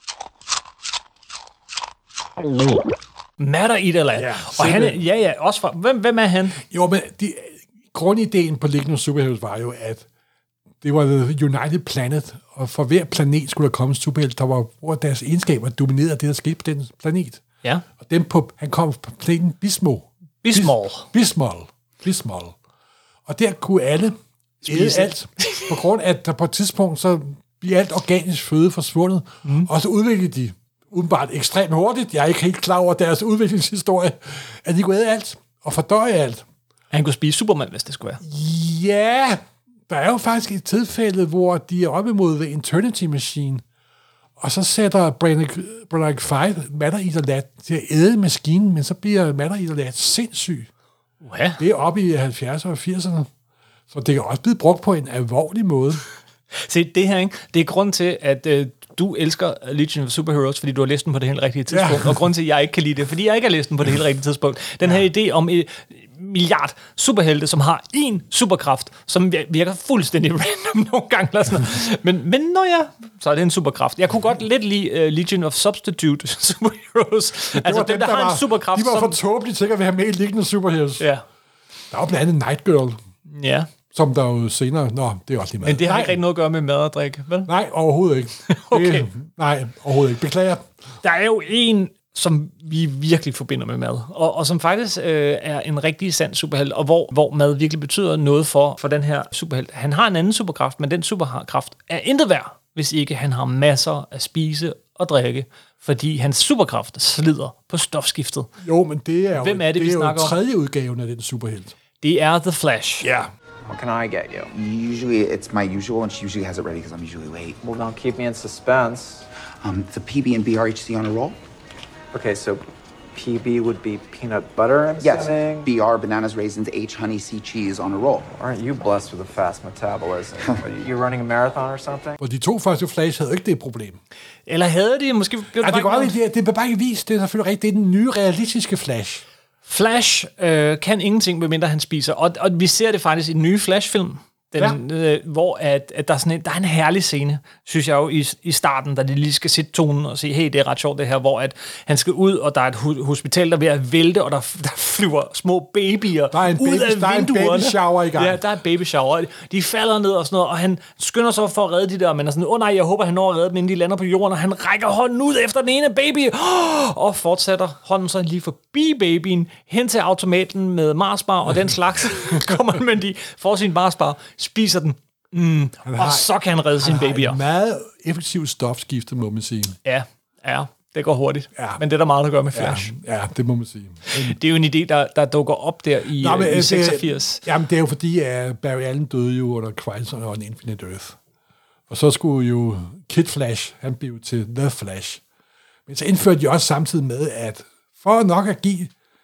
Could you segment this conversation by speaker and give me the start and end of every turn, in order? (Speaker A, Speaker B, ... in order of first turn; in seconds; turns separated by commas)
Speaker A: 3.4-6.6, Speaker B: 4.1-5.0, Speaker B: 6.6-10.1, Speaker B: 10.8-17.4, Speaker B: 18.0-22.6, Speaker A: 20.4-21.1, Speaker B: 23.3-36.4, Speaker A: 24.6-25.8, Speaker A: 36.9-38.2, Speaker B: 38.2-43.6, Speaker B: 44.4-50.7, Speaker A: 51.2-51.6, Speaker B: 51.6-53.3, Speaker B: 53.9-56.0, Speaker A: 56.6-79.2, Speaker B: 61.7-62.1, Speaker B: 77.5-81.0, Speaker A: 81.0-81.2, Speaker B: 81.9-83.0, Speaker A: 83.3-83.7, Speaker B: 83.9-86.2, Speaker A: 85.6-87.5, Speaker B: 87.5-90.7, Speaker A: 88.5-89.1, Speaker A: 91.0-108.5, Speaker B: 108.6-111.7, Speaker A: 109.3-110.3, Speaker A: 112.0-113.0, Speaker B: 113.0-113.3, Speaker C: 113.7-114.5, Speaker D: 114.5-117.6, Speaker C: 117.6-119.3, Speaker D: 119.6-121.4, Speaker C: 122.1-122.6, Speaker C: 123.1-125.7, Speaker D: 125.0-128.3, Speaker C: 128.3-132.2, Speaker B: 132.2-134.0, Speaker A: 134.5-136.1, Speaker B: 135.6-139.2, Speaker A: 139.6-177.4, Speaker B: 156.3-158.4, Speaker B: 175.8-179.8, Speaker A: 179.8-182.9, Speaker B: 181.6-181.8, Speaker B: 182.5-184.4, Speaker A: 184.1-187.4, Speaker B: 186.2-191.2, Speaker B: 191.9-195.2, Speaker B: 195.9-198.9